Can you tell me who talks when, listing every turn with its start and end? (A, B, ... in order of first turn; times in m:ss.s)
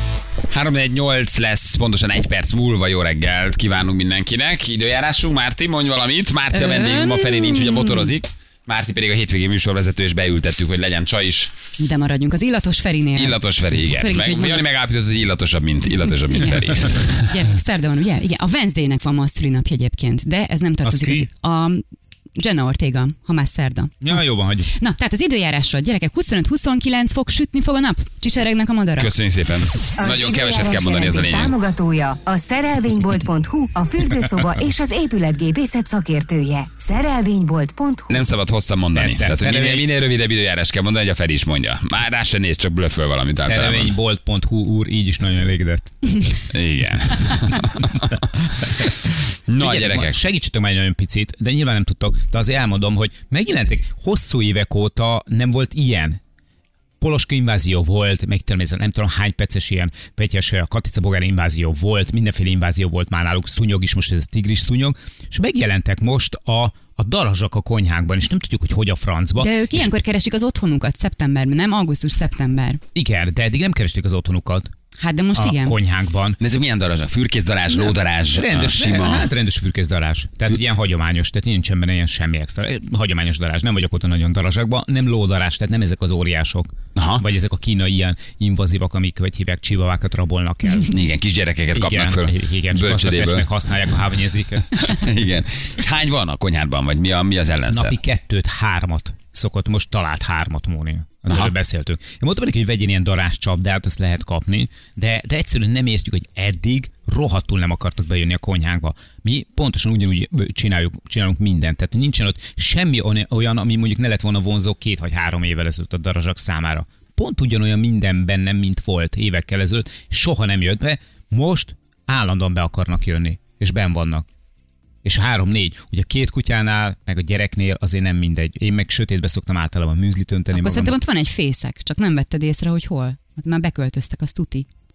0:00.5-0:11.5 A
0:06.5-0:08.1 B
0:11.8-0:14.6 B
0:13.1-0:17.4 A
0:17.2-0:21.8 B
0:20.8-0:21.3 C
0:22.4-0:24.1 B
0:24.0-0:24.7 C
0:24.7-0:29.1 B
0:29.0-0:31.6 A
0:30.0-0:38.2 D
0:38.1-0:44.0 A
0:38.9-0:39.9 C
0:43.4-0:46.1 C
0:46.5-0:48.9 A
0:49.5-0:50.2 A
0:49.6-0:56.2 C
0:57.0-1:09.9 C
1:09.4-1:12.8 B
1:12.9-1:14.7 C
1:15.0-1:15.8 B
1:15.4-1:16.4 C
1:16.4-1:19.3 A
1:18.3-1:30.9 C
1:26.9-1:27.2 A
1:30.7-1:33.5 A
1:31.7-1:34.7 C
1:34.7-1:38.0 A
1:37.7-2:04.2 C
2:05.0-2:11.0 C
2:10.5-2:14.6 B